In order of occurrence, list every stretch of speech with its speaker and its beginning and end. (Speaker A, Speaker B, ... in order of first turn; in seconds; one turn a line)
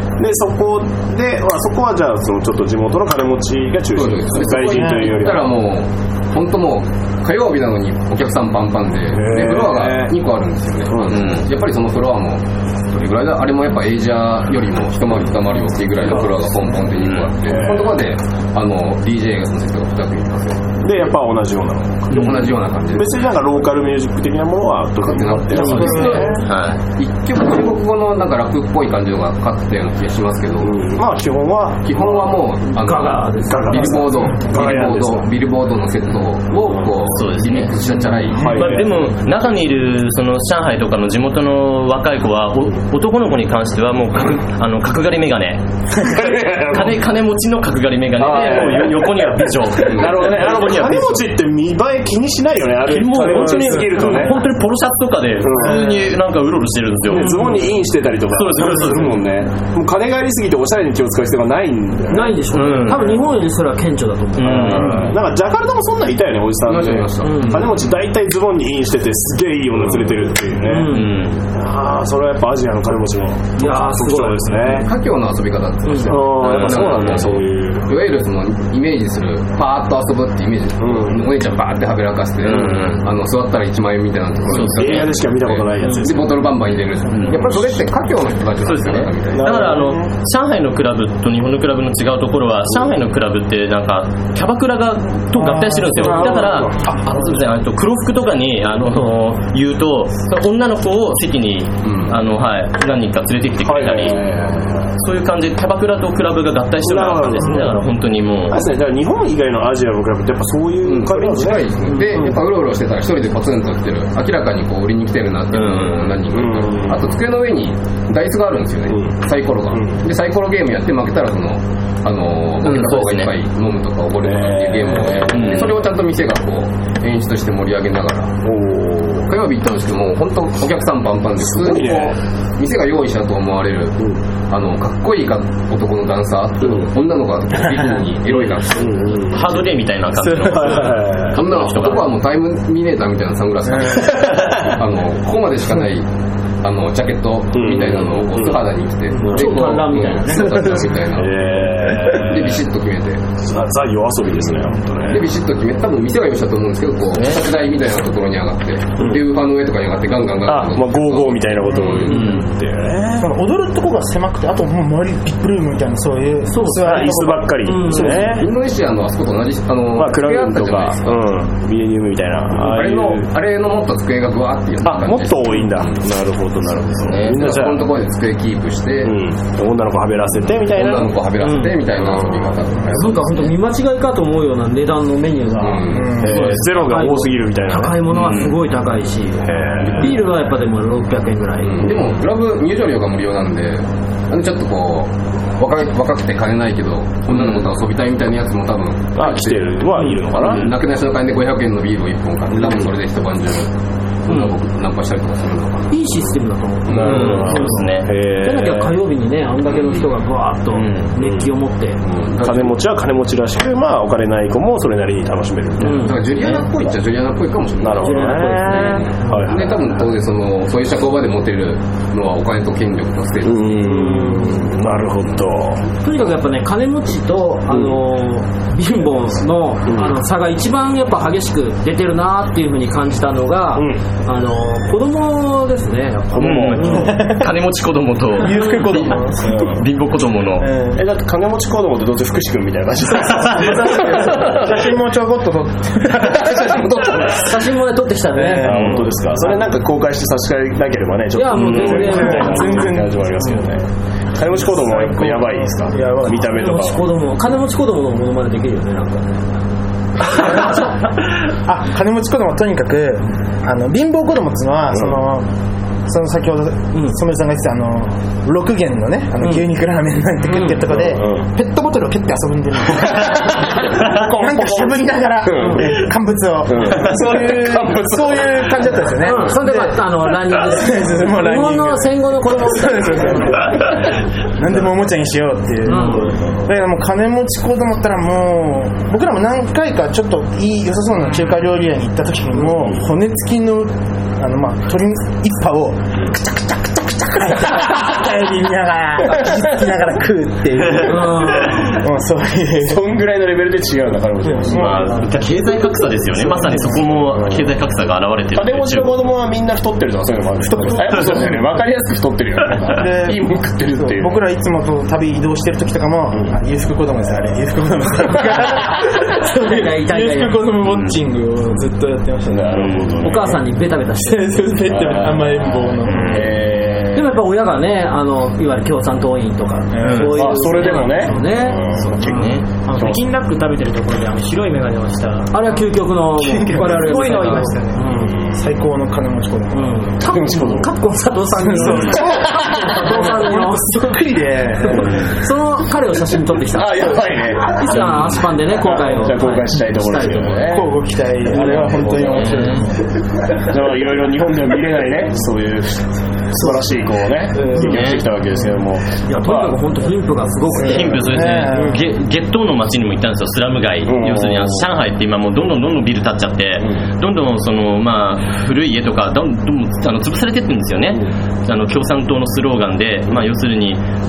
Speaker A: 0.2-5.5
Speaker B: 3.9-21.1
Speaker A: 9.1-10.1
Speaker A: 10.9-11.2
Speaker C: 11.1-11.5
Speaker A: 17.5-18.0
Speaker A: 20.8-26.4
Speaker B: 22.1-23.4
Speaker B: 25.0-30.9
Speaker D: 25.6-26.1
Speaker C: 25.8-26.8
Speaker A: 30.6-32.3
Speaker B: 31.8-38.8
Speaker D: 32.8-34.2
Speaker A: 33.5-35.3
Speaker C: 37.1-37.7
Speaker A: 38.3-39.0
Speaker C: 38.4-51.2
Speaker A: 46.0-47.0
Speaker A: 48.2-54.5
Speaker B: 49.9-50.2
Speaker C: 52.9-57.5
Speaker A: 55.4-56.0
Speaker A: 57.1-63.3
Speaker D: 57.1-57.8
Speaker C: 58.3-59.2
Speaker D: 62.1-65.0
Speaker C: 62.5-63.2
Speaker C: 64.4-65.1
Speaker A: 64.4-71.0
Speaker B: 66.7-67.9
Speaker D: 67.2-67.7
Speaker D: 70.7-71.1
Speaker C: 70.9-71.4
Speaker A: 71.5-74.9
Speaker D: 73.6-74.8
Speaker B: 74.7-89.6
Speaker D: 75.8-76.2
Speaker A: 76.0-77.9
Speaker A: 80.8-81.3
Speaker A: 82.5-82.9
Speaker C: 82.5-83.0
Speaker C: 84.5-85.1
Speaker A: 84.7-86.5
Speaker C: 87.1-87.7
Speaker A: 87.3-87.6
Speaker C: 88.7-104.2
Speaker A: 89.4-90.0
Speaker E: 95.3-96.8
Speaker A: 96.0-96.7
Speaker B: 101.8-102.2
Speaker A: 103.7-104.9
Speaker C: 105.0-108.6
Speaker A: 106.8-107.8
Speaker A: 108.5-111.7
Speaker B: 110.8-128.4
Speaker C: 115.5-116.2
Speaker A: 116.3-117.1
Speaker A: 119.7-120.0
Speaker C: 122.6-123.3
Speaker A: 124.2-125.8
Speaker C: 125.3-125.8
Speaker A: 128.4-129.3
Speaker B: 129.3-139.4
Speaker A: 131.4-132.2
Speaker A: 136.6-136.9
Speaker A: 138.8-139.6
Speaker C: 139.3-142.2
Speaker A: 140.3-141.5
Speaker B: 141.3-146.1
Speaker A: 143.9-144.8
Speaker B: 146.6-153.3
Speaker A: 147.5-148.6
Speaker D: 149.1-151.0
Speaker A: 149.2-149.9
Speaker A: 150.4-152.6
Speaker A: 153.4-155.3
Speaker B: 155.1-162.4
Speaker C: 157.2-157.4
Speaker A: 160.4-163.3
Speaker C: 162.1-162.4
Speaker E: 163.2-167.6
Speaker D: 166.5-168.3
Speaker A: 166.6-168.5
Speaker B: 167.9-171.2
Speaker A: 170.0-173.2
Speaker B: 172.5-176.0
Speaker A: 174.8-177.9
Speaker C: 177.0-177.4
Speaker B: 177.2-179.2
Speaker A: 179.0-181.1
Speaker B: 180.6-183.6
Speaker D: 181.4-181.8
Speaker A: 182.0-182.4
Speaker D: 182.9-191.9
Speaker B: 185.6-186.4
Speaker E: 185.9-186.4
Speaker A: 186.2-188.1
Speaker C: 188.2-188.5
Speaker A: 189.4-190.2
Speaker B: 189.8-190.2
Speaker B: 191.6-203.7
Speaker A: 199.2-200.7
Speaker A: 202.6-202.9
Speaker B: 204.3-207.5
Speaker D: 205.9-207.9
Speaker A: 206.9-209.0
Speaker C: 207.0-208.1
Speaker D: 208.4-212.0
Speaker C: 210.8-211.1
Speaker A: 211.2-211.5
Speaker B: 212.1-212.8
Speaker A: 212.4-216.1
Speaker D: 215.8-216.2
Speaker B: 215.9-224.3
Speaker A: 217.8-220.1
Speaker D: 218.0-219.5
Speaker A: 223.4-225.8
Speaker D: 224.1-224.4
Speaker D: 226.0-237.2
Speaker A: 227.7-228.0
Speaker A: 229.9-230.2
Speaker A: 236.3-237.1
Speaker C: 236.4-240.7
Speaker E: 237.1-237.5
Speaker E: 238.4-239.8
Speaker A: 239.4-239.9
Speaker E: 240.6-241.0
Speaker A: 240.9-244.9
Speaker E: 243.5-247.3
Speaker A: 246.2-247.6
Speaker D: 247.3-249.0
Speaker E: 248.3-249.0
Speaker A: 248.6-257.1
Speaker D: 251.3-252.9
Speaker E: 251.6-253.3
Speaker E: 254.7-256.5
Speaker D: 256.3-259.7
Speaker D: 260.3-260.8
Speaker E: 261.6-265.5
Speaker E: 266.1-283.9
Speaker D: 269.4-269.7
Speaker D: 270.5-270.8
Speaker A: 271.0-271.4
Speaker A: 273.1-274.9
Speaker A: 275.4-276.0
Speaker A: 276.7-278.8
Speaker D: 279.2-283.6
Speaker E: 284.6-303.1
Speaker D: 285.9-286.3
Speaker A: 286.1-286.6
Speaker D: 301.0-301.9
Speaker A: 302.8-305.2
Speaker E: 304.4-305.4
Speaker C: 304.7-309.3
Speaker E: 306.3-307.1
Speaker A: 307.3-307.7
Speaker A: 308.6-314.4
Speaker E: 310.6-311.7
Speaker E: 313.0-322.9
Speaker D: 319.2-320.7
Speaker C: 320.8-321.2
Speaker A: 322.5-323.6
Speaker C: 322.7-323.1
Speaker D: 323.2-324.9
Speaker E: 324.2-326.4
Speaker A: 324.9-327.3
Speaker C: 326.1-326.5
Speaker D: 327.1-332.5
Speaker E: 329.9-330.3
Speaker C: 330.0-330.5
Speaker A: 330.1-333.2
Speaker C: 331.9-332.7
Speaker F: 332.9-335.8
Speaker D: 335.5-338.4
Speaker E: 336.4-337.8
Speaker F: 336.7-338.0
Speaker A: 338.1-338.6
Speaker E: 338.5-340.0
Speaker D: 339.7-344.0
Speaker A: 340.2-340.9
Speaker E: 341.6-345.2
Speaker A: 342.0-342.5
Speaker D: 344.9-350.7
Speaker A: 346.7-350.9
Speaker E: 350.7-353.0
Speaker D: 351.5-352.4
Speaker A: 351.5-352.6
Speaker C: 352.2-352.8
Speaker A: 353.7-359.8
Speaker C: 357.8-358.2
Speaker D: 359.3-361.2
Speaker C: 360.8-374.0
Speaker E: 360.9-362.1
Speaker A: 364.1-364.9